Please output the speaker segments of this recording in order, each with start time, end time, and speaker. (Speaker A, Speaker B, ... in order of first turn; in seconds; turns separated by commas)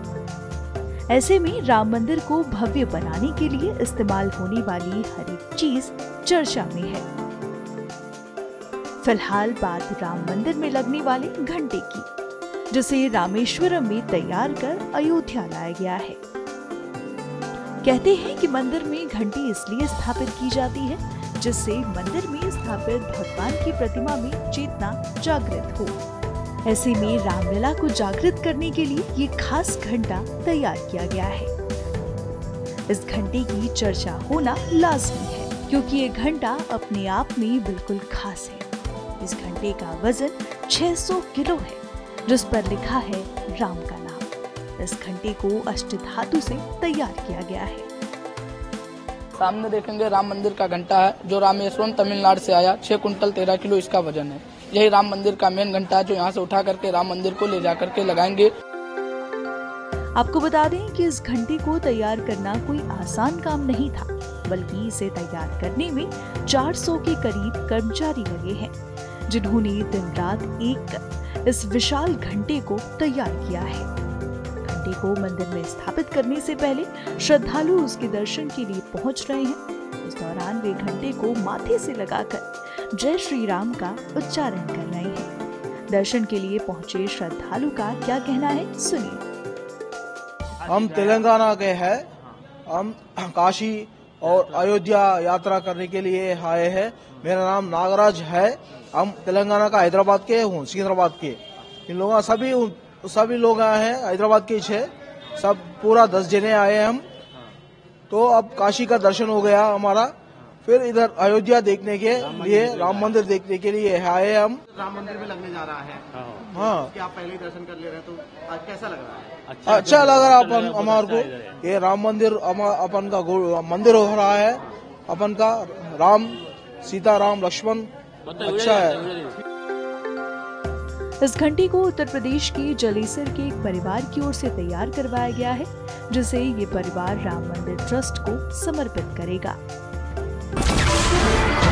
Speaker A: 1.1-7.1, Speaker A: 9.0-12.1, Speaker A: 12.7-16.2, Speaker A: 17.8-26.0, Speaker A: 26.6-31.5, Speaker A: 32.9-38.6, Speaker A: 39.2-44.2, Speaker A: 44.8-47.9, Speaker B: 49.4-58.5, Speaker A: 60.1-68.8, Speaker A: 69.3-73.9, Speaker A: 74.6-85.3, Speaker A: 85.9-89.2, Speaker C: 90.6-92.1, Speaker C: 92.7-107.0, Speaker C: 108.1-110.1, Speaker C: 110.7-114.6, Speaker D: 114.9-115.9, Speaker C: 116.4-117.0, Speaker D: 117.3-118.2, Speaker D: 118.7-119.0, Speaker C: 119.6-129.2, Speaker A: 131.2-139.6